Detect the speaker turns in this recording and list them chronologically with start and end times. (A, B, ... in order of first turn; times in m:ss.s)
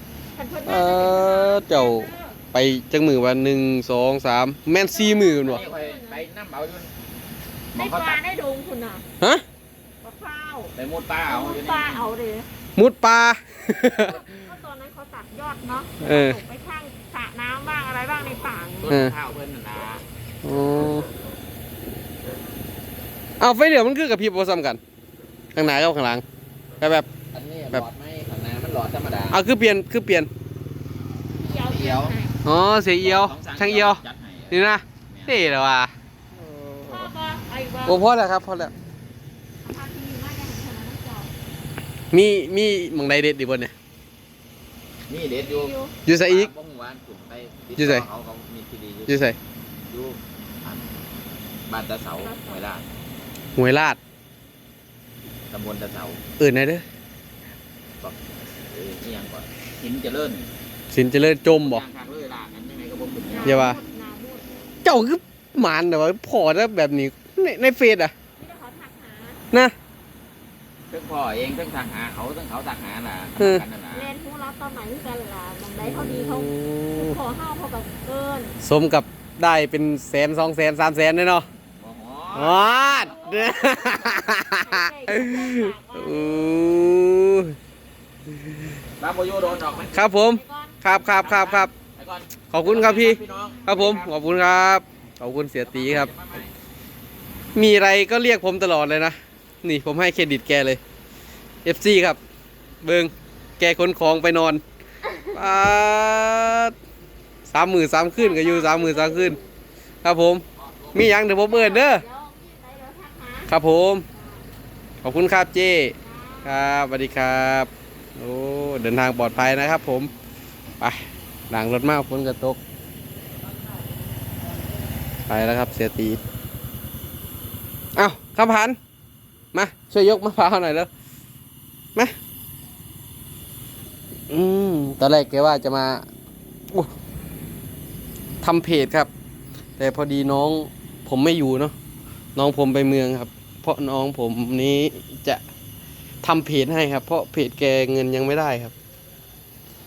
0:00.3-0:02.4 A
0:00.6-0:05.6 B
0:04.7-0:06.2 A
0:05.4-0:06.9 C
0:07.7-0:08.2 C
0:07.8-0:09.0 A
0:10.0-0:10.7 A
0:10.7-0:12.1 C
0:11.2-0:12.5 A
0:12.8-0:14.3 B
0:13.9-0:18.9 A
0:16.0-0:16.4 B
0:18.8-0:20.0 C
0:18.9-0:19.1 B
0:20.4-0:21.1 B
0:23.4-0:24.8 B
0:25.5-0:26.2 B
0:26.8-0:27.1 B
0:27.3-0:29.4 C
0:29.3-0:30.3 B
0:31.3-0:32.4 A
0:31.7-0:32.2 C
0:32.4-0:37.1 B
0:33.0-0:35.4 C
0:36.8-0:38.0 A
0:37.8-0:38.7 B
0:39.6-0:41.3 A
0:42.1-0:43.7 B
0:45.1-0:49.3 C
0:45.4-0:45.9 A
0:46.0-0:46.5 B
0:47.8-0:48.0 B
0:49.1-0:49.4 B
0:49.9-0:50.8 C
0:51.7-0:52.9 C
0:52.1-0:52.7 A
0:53.6-0:54.0 B
0:55.5-0:56.2 C
0:56.4-0:56.8 B
0:58.0-1:00.5 C
1:00.9-1:01.8 B
1:01.4-1:03.6 C
1:03.3-1:04.4 A
1:03.4-1:03.8 B
1:04.8-1:08.1 B
1:08.4-1:09.4 A
1:10.9-1:14.1 C
1:13.4-1:13.6 B
1:13.9-1:18.6 A
1:15.8-1:17.2 B
1:18.6-1:21.4 B
1:21.8-1:23.1 C
1:22.3-1:27.6 B
1:22.8-1:26.7 A
1:29.0-1:30.1 C
1:29.4-1:30.8 A
1:29.9-1:31.7 B
1:30.9-1:34.1 C
1:32.5-1:36.1 B
1:35.6-1:36.5 C
1:37.5-1:40.8 B
1:41.6-1:42.2 B
1:42.8-1:44.6 B
1:45.0-1:45.4 A
1:45.3-1:46.7 B
1:47.5-1:49.4 B
1:48.1-1:49.5 A
1:50.0-1:52.0 B
1:50.6-1:51.2 C
1:51.4-1:53.5 A
1:53.5-1:54.0 B
1:54.1-1:54.4 A
1:55.0-2:00.1 B
1:56.0-1:56.7 A
2:00.8-2:02.6 B
2:05.3-2:06.2 B
2:08.0-2:08.8 B
2:09.5-2:10.9 B
2:14.3-2:16.0 B
2:18.4-2:19.1 B
2:19.8-2:21.7 B
2:22.4-2:25.4 B
2:26.2-2:28.7 B